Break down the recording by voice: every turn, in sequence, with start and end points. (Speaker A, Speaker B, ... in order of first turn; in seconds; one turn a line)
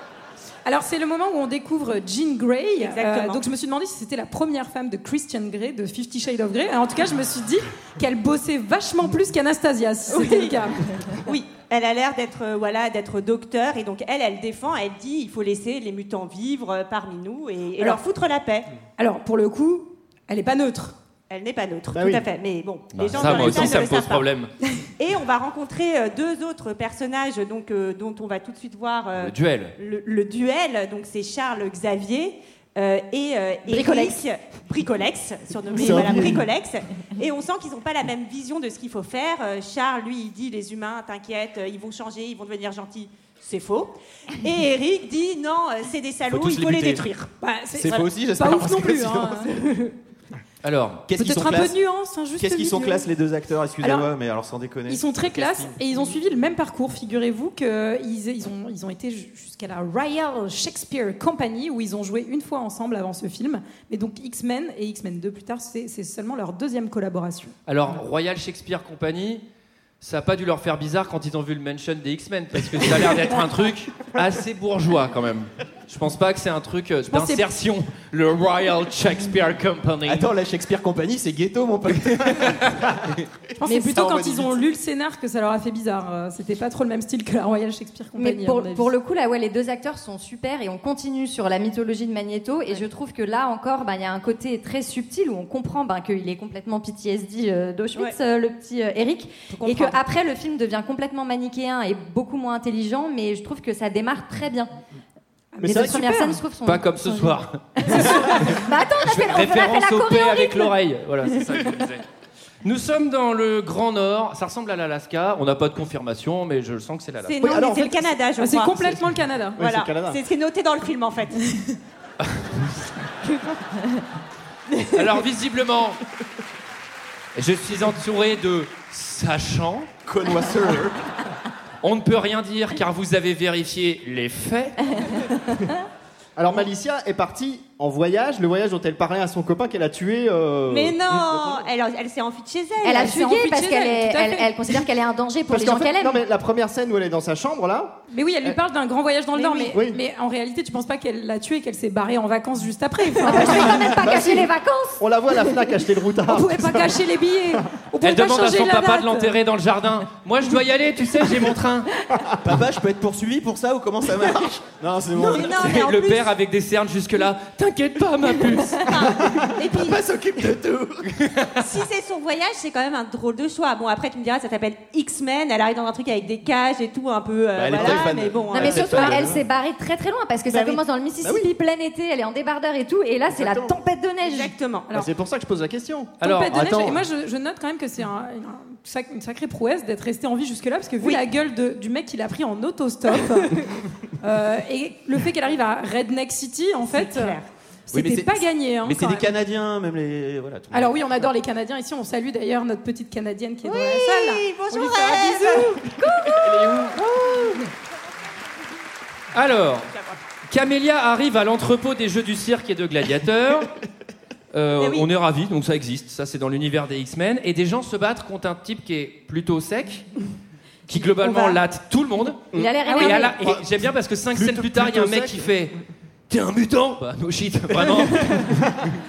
Speaker A: 0.7-10.9
Speaker B: 2.8-3.4
Speaker B: 10.1-18.7
Speaker A: 19.0-20.9
Speaker B: 21.3-24.3
Speaker C: 21.9-22.2
Speaker D: 22.9-24.5
Speaker E: 23.2-23.6
Speaker B: 25.0-47.3
Speaker D: 29.1-29.7
Speaker F: 33.7-34.2
Speaker C: 35.7-36.5
Speaker E: 46.3-47.1
Speaker A: 47.4-49.6
Speaker E: 47.8-49.6
Speaker D: 50.6-51.0
Speaker E: 51.1-51.8
Speaker A: 51.1-53.0
Speaker E: 52.4-56.1
Speaker A: 53.8-54.1
Speaker A: 54.9-67.5
Speaker D: 67.7-69.4
Speaker D: 70.0-80.3
Speaker A: 77.1-77.4
Speaker E: 80.0-83.1
Speaker A: 83.6-88.9
Speaker F: 83.7-84.0
Speaker F: 88.2-104.7
Speaker B: 99.5-100.0
Speaker A: 105.5-106.4
Speaker C: 105.6-106.3
Speaker F: 105.6-110.7
Speaker D: 106.6-112.0
Speaker D: 112.6-117.4
Speaker B: 117.2-119.0
Speaker C: 117.4-118.1
Speaker A: 118.4-119.6
Speaker C: 119.6-120.2
Speaker B: 119.6-121.4
Speaker D: 124.9-126.0
Speaker D: 127.3-129.9
Speaker E: 130.1-131.0
Speaker D: 131.8-135.1
Speaker C: 136.4-141.2
Speaker B: 140.7-143.2
Speaker F: 142.8-146.2
Speaker A: 143.0-144.8
Speaker C: 145.5-148.6
Speaker A: 148.1-154.0
Speaker B: 149.3-149.7
Speaker C: 149.7-150.0
Speaker F: 153.2-155.0
Speaker C: 153.3-157.6
Speaker A: 156.3-159.3
Speaker D: 158.0-161.9
Speaker E: 162.4-165.6
Speaker B: 165.1-166.3
Speaker D: 165.3-168.9
Speaker B: 168.9-170.0
Speaker E: 169.6-171.2
Speaker D: 171.2-171.6
Speaker B: 171.6-179.2
Speaker E: 177.6-179.4
Speaker F: 178.5-184.5
Speaker B: 180.5-180.8
Speaker C: 181.2-181.5
Speaker C: 183.3-183.7
Speaker B: 184.2-184.9
Speaker C: 184.9-187.0
Speaker D: 186.2-186.7
Speaker A: 186.2-193.6
Speaker A: 194.2-197.4
Speaker B: 196.9-197.5
Speaker A: 197.9-199.3
Speaker E: 197.9-201.3
Speaker A: 200.7-205.8
Speaker B: 203.6-205.8
Speaker F: 206.0-206.9
Speaker E: 206.5-206.9
Speaker D: 209.3-209.9
Speaker D: 210.5-213.7
Speaker D: 214.5-220.1
Speaker B: 214.8-215.1
Speaker D: 220.9-225.8
Speaker B: 221.2-221.5
Speaker F: 222.5-223.3
Speaker A: 222.8-223.2
Speaker C: 224.3-225.5
Speaker D: 226.3-228.6